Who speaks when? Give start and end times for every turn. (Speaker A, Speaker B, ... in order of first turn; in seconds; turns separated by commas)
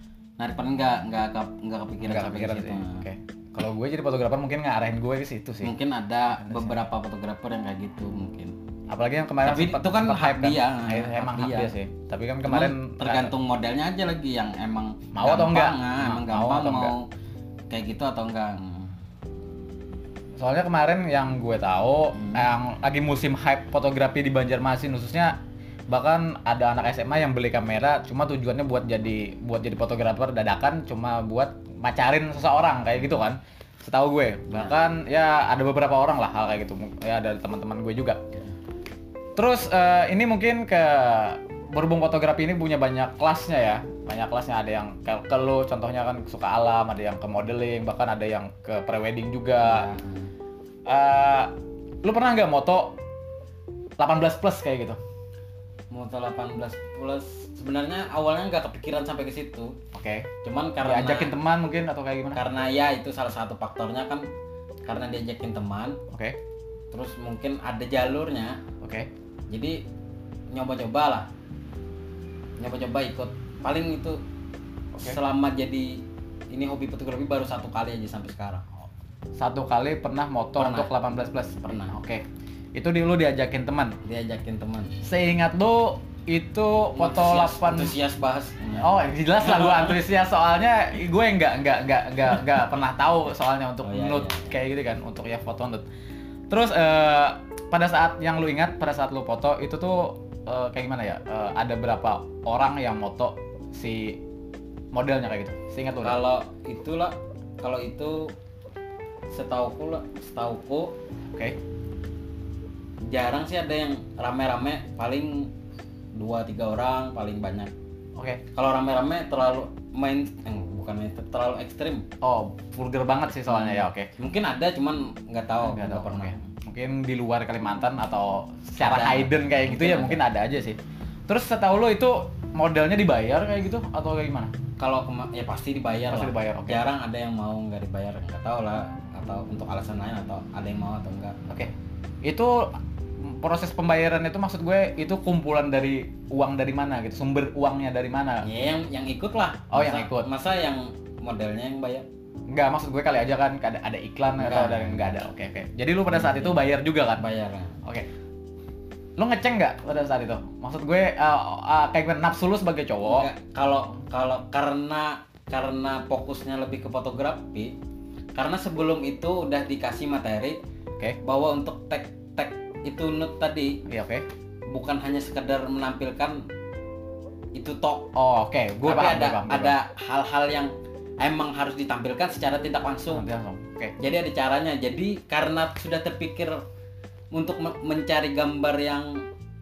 Speaker A: 0.4-3.0, Speaker B: 2.0-5.7, Speaker A: 5.6-8.5, Speaker B: 6.4-6.8, Speaker B: 8.9-13.3, Speaker A: 9.4-11.7, Speaker A: 12.4-17.1, Speaker B: 15.1-16.9, Speaker A: 17.7-18.9, Speaker B: 20.4-25.4, Speaker A: 22.1-22.5, Speaker B: 25.9-38.2, Speaker A: 34.5-34.7, Speaker B: 39.4-49.9, Speaker A: 49.6-50.3, Speaker B: 50.9-51.5, Speaker B: 52.0-53.0, Speaker B: 54.0-55.0, Speaker A: 55.9-59.8, Speaker B: 59.9-60.3, Speaker A: 60.4-61.3, Speaker B: 60.8-62.4, Speaker A: 62.3-64.3, Speaker A: 64.8-66.0, Speaker B: 66.1-66.4, Speaker A: 66.9-68.6, Speaker B: 68.8-69.1, Speaker A: 69.5-69.8, Speaker A: 70.5-71.3, Speaker A: 72.6-74.2, Speaker A: 75.0-78.6, Speaker B: 79.3-82.2, Speaker A: 80.6-80.9, Speaker A: 81.6-81.9, Speaker B: 82.7-84.0, Speaker A: 84.0-84.9, Speaker B: 85.0-87.9, Speaker A: 86.9-88.9, Speaker B: 88.8-95.8, Speaker A: 89.4-90.0, Speaker A: 93.8-94.5, Speaker B: 96.5-104.2, Speaker B: 104.9-106.2, Speaker A: 106.0-108.3, Speaker A: 109.3-110.9, Speaker A: 113.1-115.5, Speaker A: 116.1-117.7, Speaker B: 118.2-118.4, Speaker A: 118.5-122.0, Speaker B: 122.2-124.1, Speaker A: 123.5-126.5, Speaker B: 125.6-134.5, Speaker A: 128.8-130.2, Speaker A: 134.8-141.4, Speaker B: 136.1-136.8, Speaker B: 141.5-142.7, Speaker B: 143.2-148.5, Speaker A: 148.4-152.1, Speaker B: 149.7-150.3, Speaker B: 152.5-157.2, Speaker A: 154.4-155.1, Speaker A: 156.1-156.6, Speaker A: 157.2-157.8, Speaker B: 159.2-163.3, Speaker A: 163.0-167.7, Speaker A: 168.3-170.6, Speaker A: 171.2-173.8, Speaker B: 173.9-174.2, Speaker A: 174.7-176.4, Speaker A: 177.5-178.1, Speaker B: 178.1-179.8, Speaker A: 178.8-183.2, Speaker B: 183.1-183.9, Speaker A: 184.0-186.6, Speaker A: 187.3-189.2